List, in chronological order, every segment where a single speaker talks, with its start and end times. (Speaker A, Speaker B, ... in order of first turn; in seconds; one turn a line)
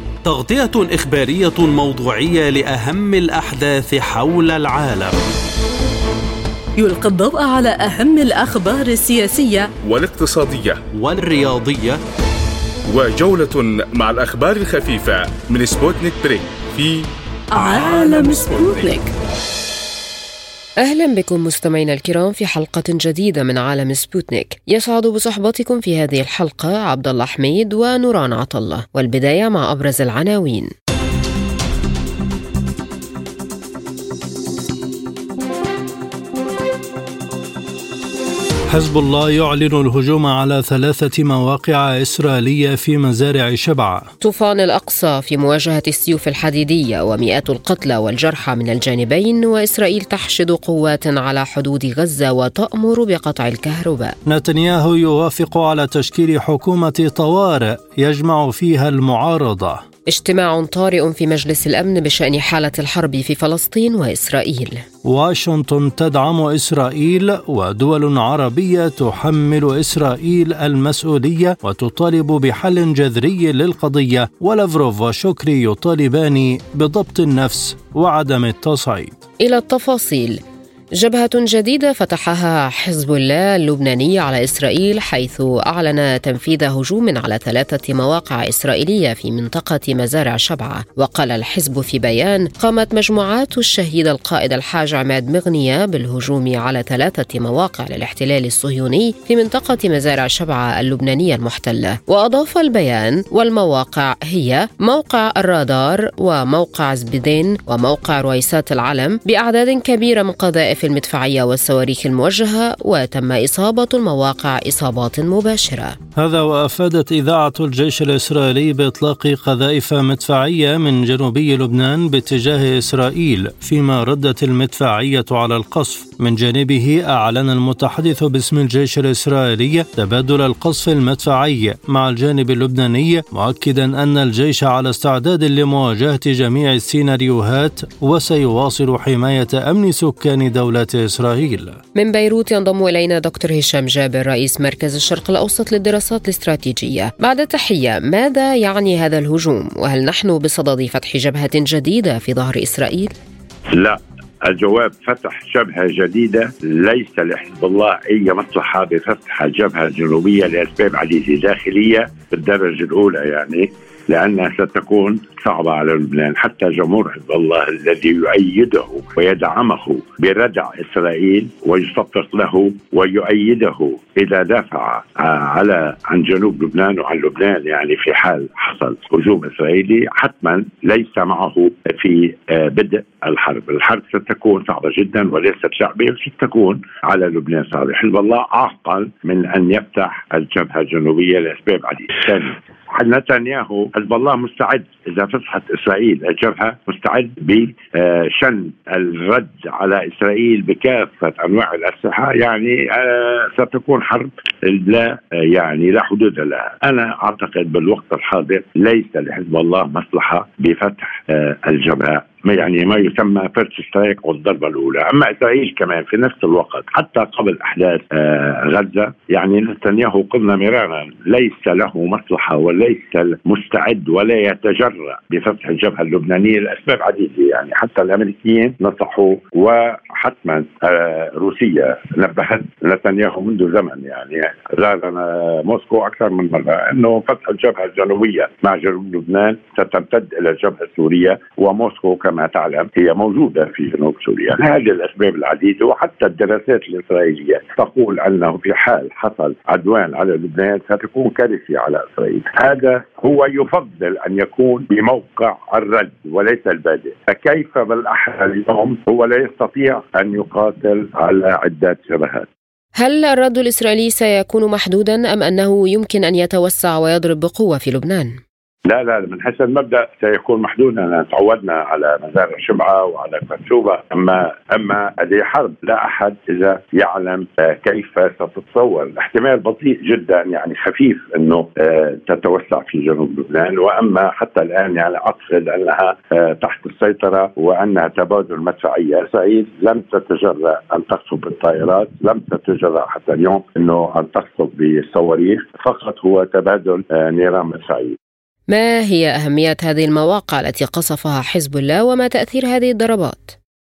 Speaker A: 0.2-5.2
Speaker B: 6.8-9.7
Speaker C: 9.8-10.8
Speaker A: 10.9-12.0
Speaker C: 12.9-19.0
Speaker B: 17.6-19.1
Speaker D: 20.8-30.7
Speaker E: 38.7-44.1
Speaker D: 44.2-54.1
Speaker E: 54.3-59.8
Speaker D: 60.1-64.8
Speaker E: 65.0-79.2
Speaker D: 79.4-80.4
Speaker D: 81.0-116.0
Speaker E: 116.2-141.8
Speaker D: 141.9-153.1
Speaker F: 153.7-262.5
Speaker D: 263.0-268.4
Speaker F: 268.9-298.2
Speaker D: 298.7-303.6